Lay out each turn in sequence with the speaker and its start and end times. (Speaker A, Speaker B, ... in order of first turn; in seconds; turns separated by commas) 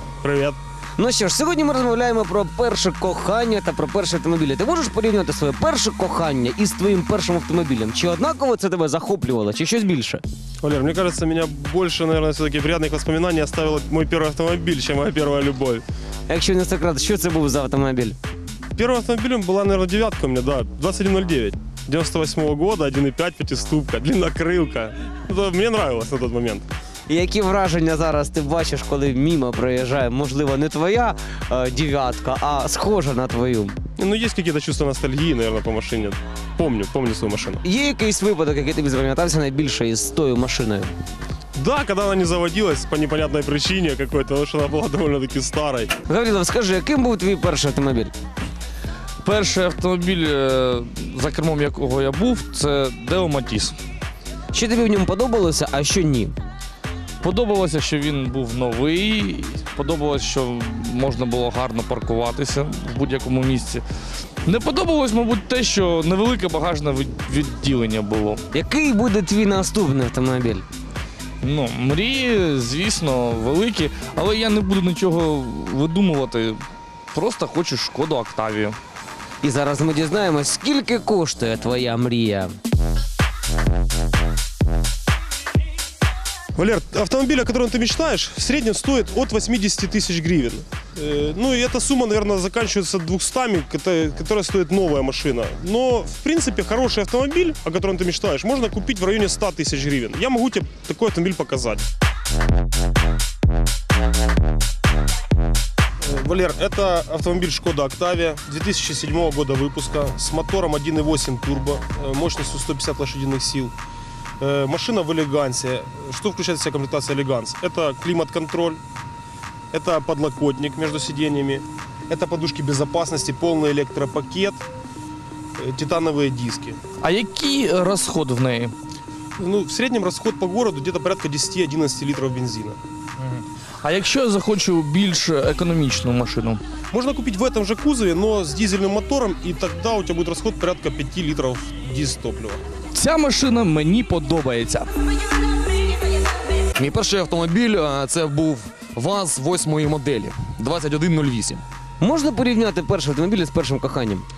Speaker A: 0.2-0.6, Speaker B: 1.0-10.2, Speaker A: 10.6-15.8, Speaker B: 16.3-18.2, Speaker A: 18.8-26.7, Speaker B: 27.1-33.8, Speaker A: 34.0-37.6, Speaker B: 37.6-40.9, Speaker A: 41.6-45.9, Speaker B: 46.1-48.1, Speaker C: 49.2-53.8, Speaker B: 54.5-56.4, Speaker C: 57.2-63.8, Speaker C: 64.5-68.4, Speaker B: 68.5-70.7, Speaker C: 71.4-78.8, Speaker B: 79.4-82.5, Speaker A: 86.6-101.8, Speaker A: 106.0-113.7, Speaker A: 114.4-118.8, Speaker A: 119.7-124.6, Speaker A: 125.6-126.8, Speaker C: 127.0-128.8, Speaker A: 129.4-132.8, Speaker C: 133.2-136.6, Speaker A: 136.9-142.6, Speaker C: 142.9-144.9, Speaker D: 146.8-151.6, Speaker B: 152.0-154.3